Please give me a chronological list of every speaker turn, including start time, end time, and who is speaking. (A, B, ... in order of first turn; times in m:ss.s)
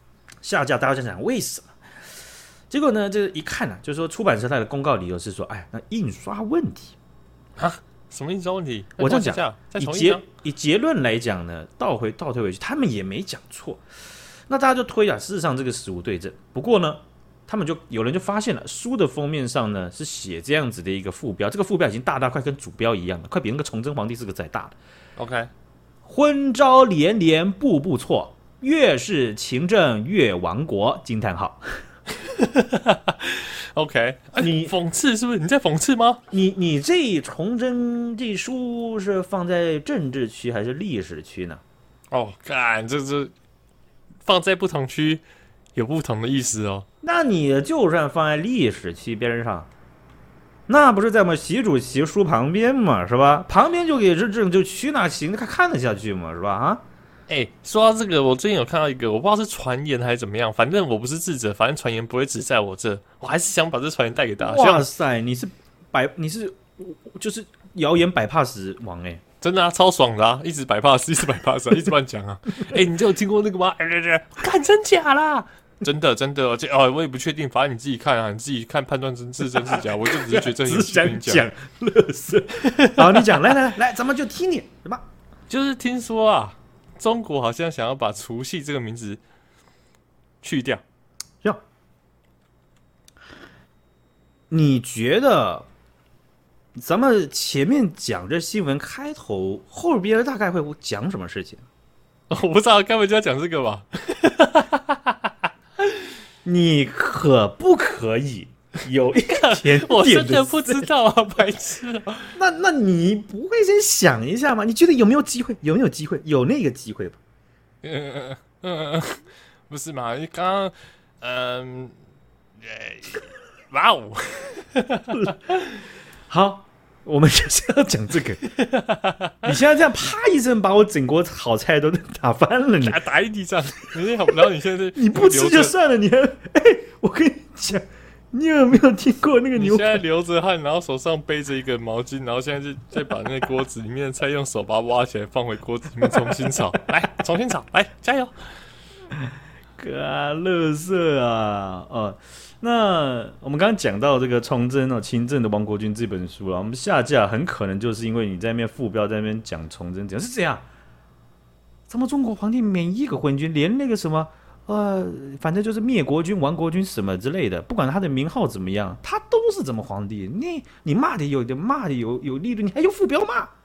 0:00.4-0:01.8 A
0:02.7-0:07.0 A
0:07.6-0:10.2 B
0:09.0-0:13.8 A
0:14.5-0:24.8 A
0:25.2-0:25.5 B
0:26.0-0:31.8 A
0:32.2-0:36.2 B
0:34.4-0:34.7 A
0:36.3-0:41.6 A
0:42.1-0:43.3 B
0:44.2-0:45.2 B
0:45.8-0:46.9 B
0:47.0-0:49.7 A
0:50.7-0:56.8 A
0:57.3-1:04.9 B
1:04.4-1:09.2 A
1:09.4-1:21.4 B
1:19.5-1:25.0 A
1:22.6-1:23.3 B
1:25.5-1:29.2 B
1:30.4-1:30.8 B
1:34.5-1:35.7 A
1:36.8-1:41.6 A
1:42.3-1:46.0 B
1:46.4-1:50.9 A
1:49.3-1:52.4 B
1:52.4-1:57.2 A
1:57.8-2:02.0 B
2:02.6-2:05.8 B
2:06.3-2:08.4 A
2:08.5-2:09.5 B
2:09.4-2:13.0 A
2:12.8-2:15.7 B
2:15.0-2:20.0 A
2:19.6-2:28.3 B
2:29.1-2:40.7 A
2:41.9-2:53.5 A